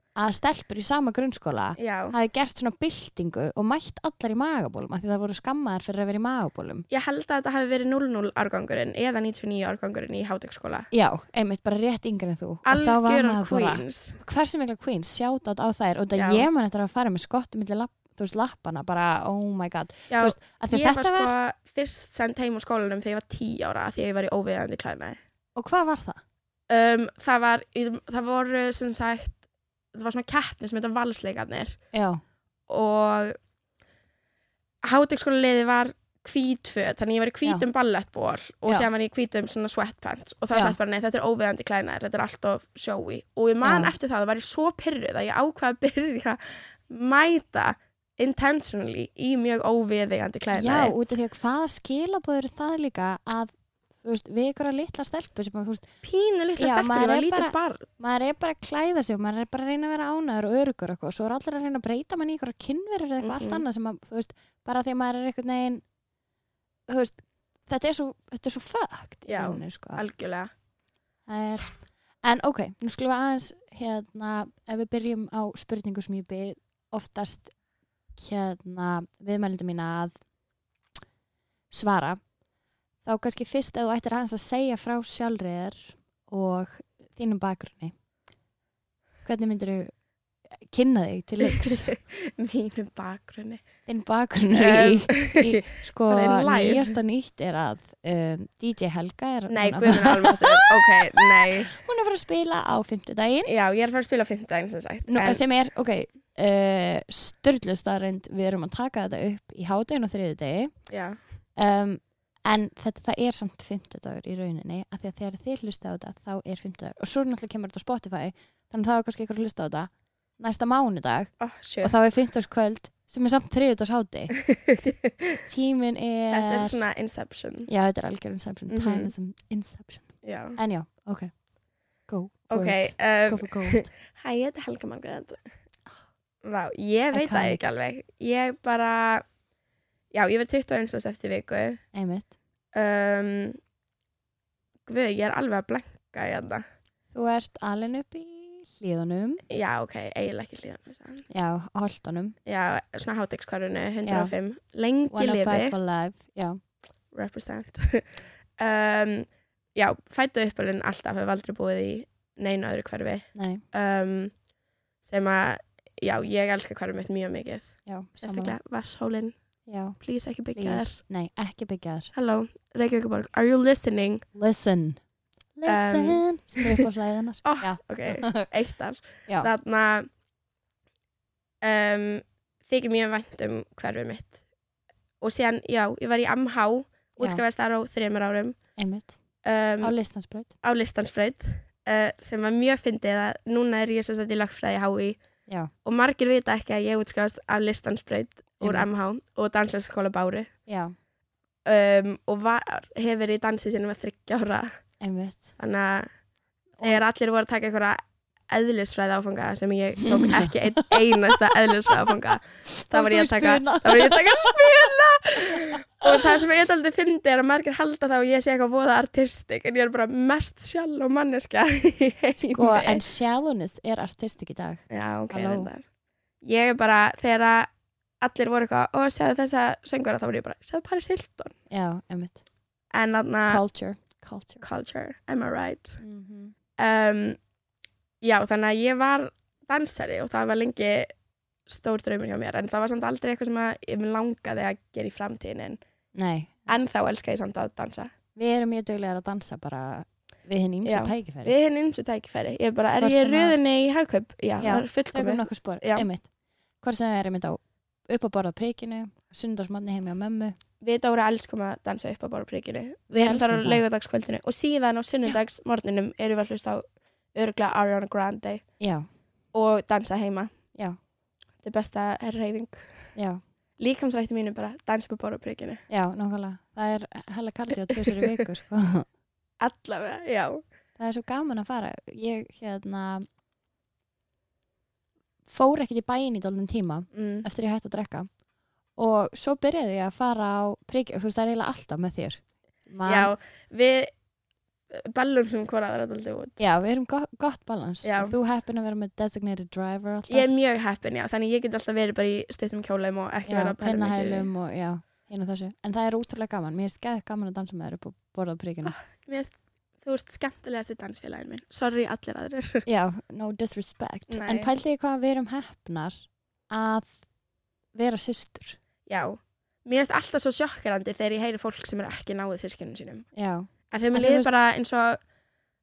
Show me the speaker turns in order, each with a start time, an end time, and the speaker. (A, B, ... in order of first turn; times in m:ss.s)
0:00.2-0:06.8 A
0:01.8-0:02.1 B
0:06.9-0:10.9 B
0:10.9-0:21.3 A
0:12.6-0:14.2 B
0:16.1-0:16.4 B
0:20.1-0:25.2 B
0:25.6-0:26.2 A
0:26.7-0:29.4 B
0:29.9-0:31.8 B
0:31.9-0:32.2 A
0:32.7-0:33.4 B
0:34.8-0:50.9 B
0:43.6-0:43.9 A
0:50.5-0:55.9 A
0:56.0-0:57.8 B
0:56.6-1:05.8 A
1:03.2-1:03.6 B
1:06.9-1:10.0 A
1:09.3-1:10.5 B
1:11.3-1:17.5 A
1:18.2-1:20.2 A
1:21.7-1:22.2 A
1:23.0-1:27.9 A
1:29.2-1:29.9 A
1:30.6-1:31.9 A
1:31.4-1:33.6 B
1:33.8-1:43.5 A
1:34.5-1:36.9 B
1:39.5-1:41.7 B
1:43.4-1:45.4 B
1:45.1-1:50.7 A
1:50.9-1:51.2 B
1:51.6-2:04.4 A
2:01.4-2:01.9 B
2:04.5-2:05.4 B
2:05.5-2:06.8 A
2:06.3-2:07.7 B
2:07.7-2:11.3 A
2:08.7-2:09.1 B
2:10.2-2:10.6 B
2:12.1-2:13.9 A
2:12.5-2:15.4 B
2:16.4-2:19.2 B
2:17.1-2:17.6 A
2:20.1-2:21.8 B
2:21.9-2:22.3 A
2:22.7-2:23.6 B
2:24.8-2:26.6 B
2:27.1-2:29.4 A
2:29.5-2:31.2 B
2:31.3-2:32.4 A
2:32.4-2:35.7 B
2:34.0-2:34.3 A
2:35.1-2:36.6 A
2:37.1-2:44.3 B
2:43.3-2:43.6 A
2:45.0-2:49.3 B
2:47.8-2:48.6 A
2:49.6-2:50.0 A
2:50.0-2:51.0 B
2:50.5-2:52.1 A
2:52.1-2:54.2 B
2:54.3-2:55.0 A
2:55.5-2:58.5 A
2:55.6-2:56.8 B
2:57.4-3:00.1 B
3:01.6-3:04.3 B
3:05.2-3:08.6 B
3:08.8-3:09.2 A
3:09.4-3:09.9 B
3:09.8-3:10.5 A
3:10.6-3:15.2 B
3:15.8-3:20.5 B
3:18.6-3:19.0 A
3:20.7-3:20.9 A
3:21.6-3:24.7 B
3:25.0-3:25.5 A
3:25.6-3:26.1 B
3:26.8-3:43.0 B
3:30.0-3:31.0 A
3:32.8-3:34.9 A
3:35.5-3:36.2 A
3:42.5-3:45.7 A
3:44.9-3:45.8 B
3:46.4-3:51.5 B
3:51.7-3:52.4 A
3:52.9-3:53.6 B
3:53.5-3:54.6 A
3:54.6-3:56.0 B
3:56.0-3:56.5 A
3:56.8-3:57.4 B
3:58.2-4:01.1 B
4:01.7-4:05.8 B
4:06.1-4:06.7 A
4:06.7-4:08.1 B
4:08.3-4:11.5 A
4:10.8-4:16.0 B
4:13.0-4:13.6 A
4:14.6-4:16.3 A
4:16.8-4:20.6 A
4:20.8-4:28.6 B
4:23.1-4:23.8 A
4:28.8-4:29.0 A
4:29.5-4:30.5 B
4:31.6-4:33.1 B
4:33.1-4:33.4 A
4:33.8-4:35.8 B
4:35.9-4:39.0 A
4:39.6-4:40.6 B
4:41.0-4:43.3 A
4:45.5-4:48.3 A
4:47.1-4:47.4 B
4:49.0-4:53.3 A
4:53.0-4:54.1 B
4:54.9-4:56.6 B
4:56.6-5:00.5 A
4:58.0-4:58.3 B
5:00.3-5:04.5 B
5:03.4-5:09.0 A
5:08.8-5:12.8 B
5:12.8-5:17.2 A
5:14.3-5:14.7 B
5:17.9-5:18.8 A
5:19.0-5:23.3 B
5:23.3-5:24.5 A
5:23.9-5:25.2 B